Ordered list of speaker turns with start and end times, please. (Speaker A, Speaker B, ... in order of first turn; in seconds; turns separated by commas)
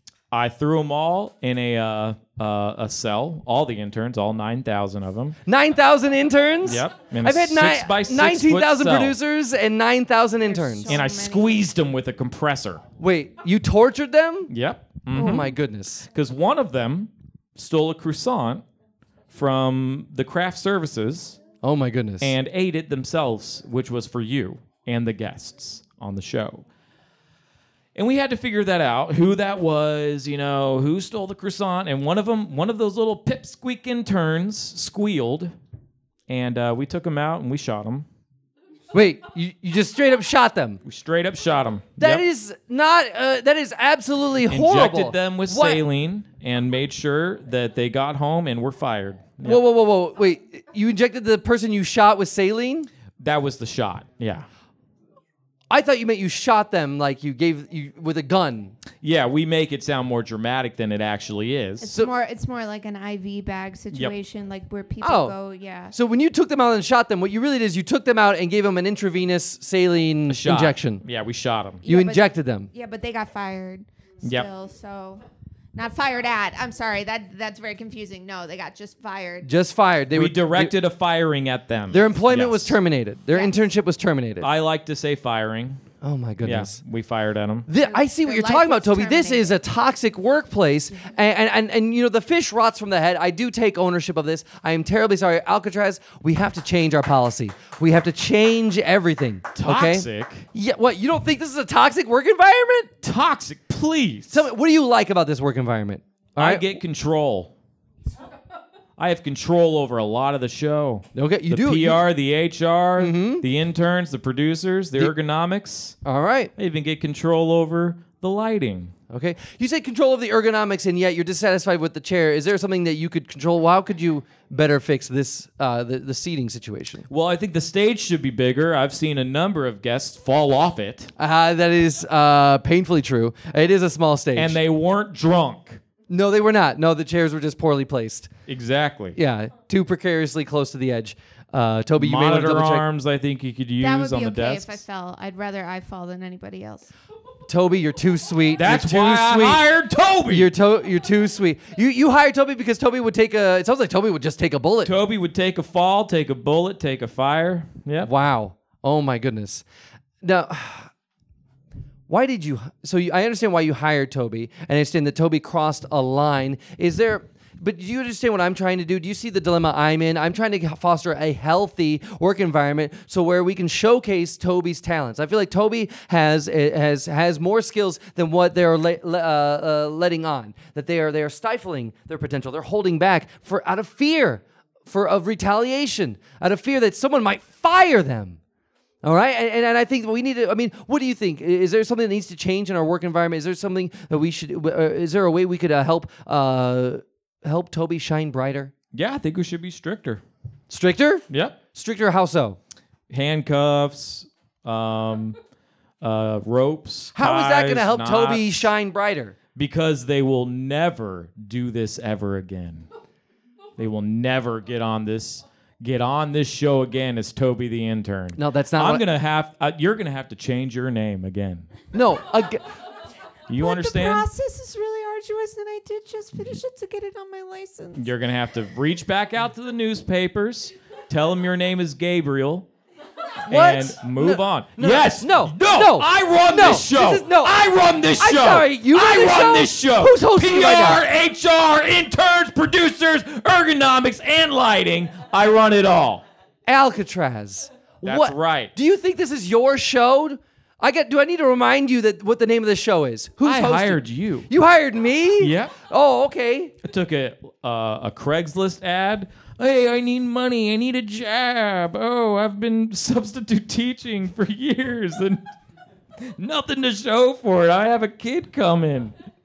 Speaker A: 0.3-5.4, Speaker B: 5.5-10.9, Speaker A: 6.6-9.2, Speaker C: 10.4-11.6, Speaker A: 10.9-12.8, Speaker B: 13.0-14.5, Speaker A: 14.5-15.5, Speaker B: 15.1-16.1, Speaker C: 15.1-15.5, Speaker A: 16.1-18.6, Speaker A: 19.3-21.4, Speaker B: 21.6-22.3, Speaker A: 22.2-26.6, Speaker A: 27.9-35.5, Speaker A: 36.3-38.0, Speaker B: 38.9-40.8, Speaker A: 40.8-42.2, Speaker B: 42.0-45.9, Speaker A: 44.5-49.6, Speaker B: 49.4-52.9, Speaker A: 53.2-54.5, Speaker B: 55.7-58.7, Speaker A: 59.0-62.0, Speaker C: 61.8-65.9, Speaker B: 65.0-65.3, Speaker B: 65.9-71.0, Speaker A: 70.3-71.8, Speaker C: 71.8-75.2, Speaker B: 71.8-72.7, Speaker A: 74.2-74.5, Speaker C: 75.7-79.5, Speaker B: 79.4-80.7, Speaker A: 80.1-82.8, Speaker B: 81.9-84.5, Speaker C: 83.3-83.6, Speaker A: 84.4-85.8, Speaker B: 86.0-86.8, Speaker A: 86.4-87.7, Speaker B: 87.7-102.9, Speaker C: 87.8-89.6, Speaker A: 99.5-100.5, Speaker A: 103.0-104.5, Speaker B: 104.3-106.8, Speaker A: 106.4-107.5, Speaker A: 109.0-116.0, Speaker B: 111.1-112.0, Speaker B: 113.0-113.5, Speaker B: 116.0-116.5, Speaker A: 116.6-118.9, Speaker B: 119.1-127.1, Speaker A: 127.1-131.1, Speaker B: 131.2-134.6, Speaker A: 134.3-135.8, Speaker B: 136.1-138.3, Speaker A: 138.5-139.2, Speaker B: 139.1-142.9, Speaker A: 141.9-144.8, Speaker C: 143.8-146.9, Speaker B: 147.5-149.6, Speaker A: 148.6-150.5, Speaker B: 150.3-154.9, Speaker A: 154.8-158.1, Speaker B: 158.0-159.6, Speaker B: 160.2-160.9, Speaker B: 162.1-188.4, Speaker B: 189.0-198.7, Speaker A: 198.9-200.2, Speaker B: 200.7-202.6, Speaker A: 201.3-201.6, Speaker A: 203.1-205.3, Speaker A: 206.0-208.7, Speaker B: 207.1-209.3, Speaker A: 209.5-212.9, Speaker A: 213.8-221.7, Speaker B: 218.3-219.0, Speaker B: 221.9-222.6, Speaker A: 223.5-224.3, Speaker C: 223.6-228.1, Speaker A: 227.9-232.7, Speaker B: 233.5-237.6, Speaker A: 233.5-246.2, Speaker B: 238.2-241.0, Speaker B: 246.7-256.7, Speaker A: 248.0-248.7, Speaker A: 253.4-254.5, Speaker A: 255.4-255.8, Speaker A: 256.8-265.4, Speaker A: 266.2-269.1